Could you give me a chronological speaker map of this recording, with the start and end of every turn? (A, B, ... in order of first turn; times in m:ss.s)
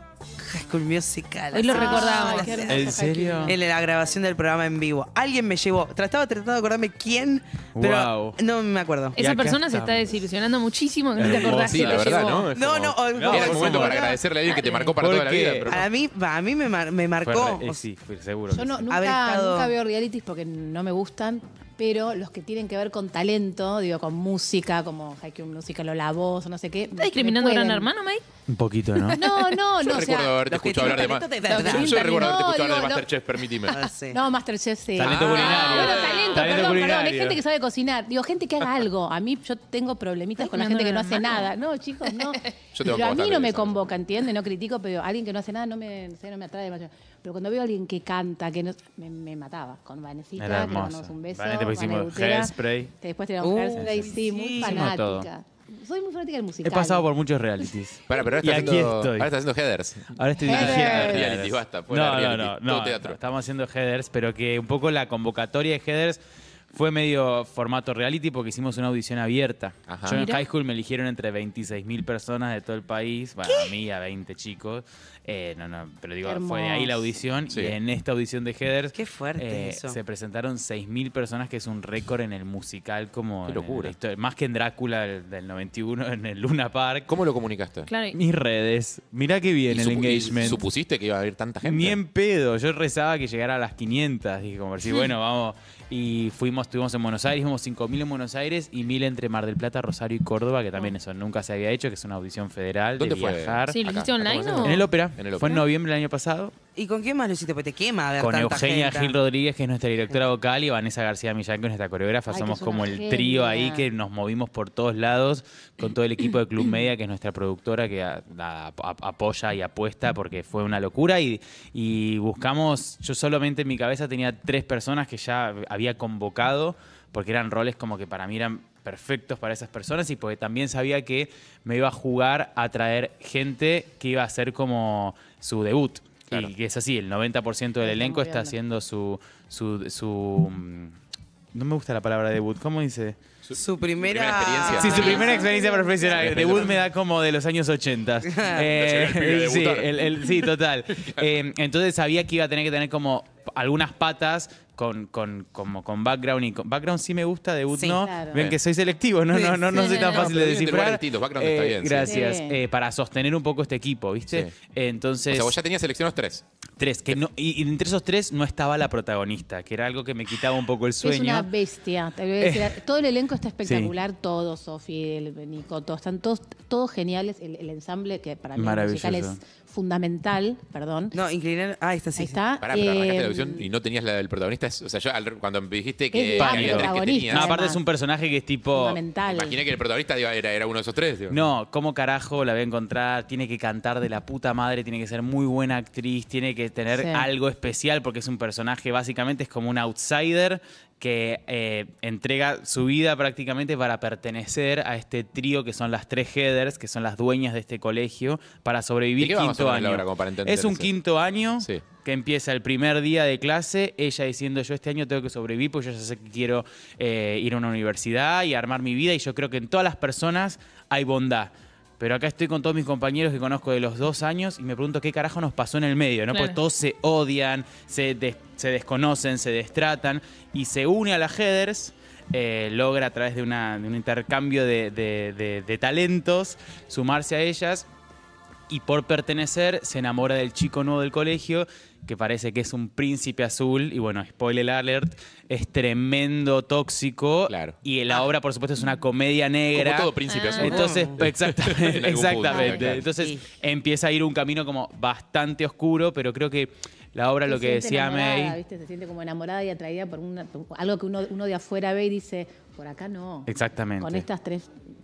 0:00.4-0:09.2 A
0:01.5-0:02.7 B
0:01.6-0:03.6 C
0:02.7-0:03.6 D
0:07.8-0:08.4 D
0:09.2-0:12.5 B
0:09.2-0:10.0 D
0:11.2-0:15.9 E
0:11.2-0:14.2 A
0:13.2-0:14.0 D
0:15.0-0:15.7 D
0:15.7-0:17.8 A
0:17.2-0:18.8 D
0:18.5-0:27.9 C
0:18.9-0:19.8 A
0:27.0-0:28.2 B
0:28.5-0:29.2 D
0:29.0-0:29.6 B
0:29.2-0:33.1 C
0:29.8-0:33.8 E
0:30.5-0:32.2 A
0:33.7-0:34.2 A
0:34.1-0:57.1 C
0:35.0-0:37.4 D
0:35.0-0:35.9 E
0:35.7-0:36.8 B
0:40.4-0:41.4 B
0:42.7-0:43.9 E
0:50.4-0:52.9 D
0:53.4-0:55.0 A
0:53.8-0:55.3 D
0:56.6-0:59.3 D
0:58.1-1:03.2 E
1:00.1-1:06.2 D
1:00.4-1:01.3 C
1:06.7-1:27.1 D
1:09.9-1:10.3 E
1:10.1-1:10.4 B
1:13.4-1:13.7 A
1:16.2-1:17.1 C
1:17.5-1:17.8 E
1:18.9-1:20.0 A
1:23.5-1:24.0 E
1:27.1-1:27.9 E
1:27.9-1:28.2 B
1:28.1-1:30.6 D
1:29.7-1:32.0 E
1:31.6-1:43.8 D
1:43.0-1:45.6 E
1:43.7-1:44.9 B
1:44.6-1:46.6 D
1:46.8-1:49.2 A
1:48.2-2:21.0 D
1:52.3-1:53.9 C
2:16.3-2:16.5 E
2:17.8-2:18.6 C
2:21.5-2:23.2 D
2:23.4-2:25.3 E
2:23.6-2:25.4 A
2:24.6-2:26.6 C
2:24.7-2:45.5 D
2:26.2-2:26.7 E
2:28.3-2:28.6 A
2:28.6-2:31.2 E
2:37.9-2:38.4 C
2:38.3-2:38.6 E
2:39.3-2:39.8 A
2:39.8-2:40.2 B
2:39.8-2:42.3 E
2:42.1-2:42.6 C
2:44.3-2:44.5 E
2:45.3-2:46.4 E
2:46.8-2:51.5 D
2:51.0-3:01.2 C
2:52.4-2:52.8 D
2:53.6-2:53.9 D
2:58.6-2:59.4 D
3:01.1-3:02.4 A
3:02.2-3:03.7 C
3:02.6-3:07.5 E
3:06.1-3:07.8 C
3:06.4-3:09.0 D
3:08.7-3:09.6 C
3:09.3-3:11.5 E
3:11.3-3:57.9 D
3:16.9-3:17.3 C
3:29.2-3:30.9 E
3:46.3-3:46.6 B
3:58.7-4:18.6 D
4:07.5-4:07.8 E
4:09.7-4:13.1 E
4:10.3-4:10.8 B
4:10.6-4:11.2 A
4:13.2-4:13.4 A
4:17.5-4:23.5 C
4:23.5-4:24.3 D
4:24.0-4:24.7 C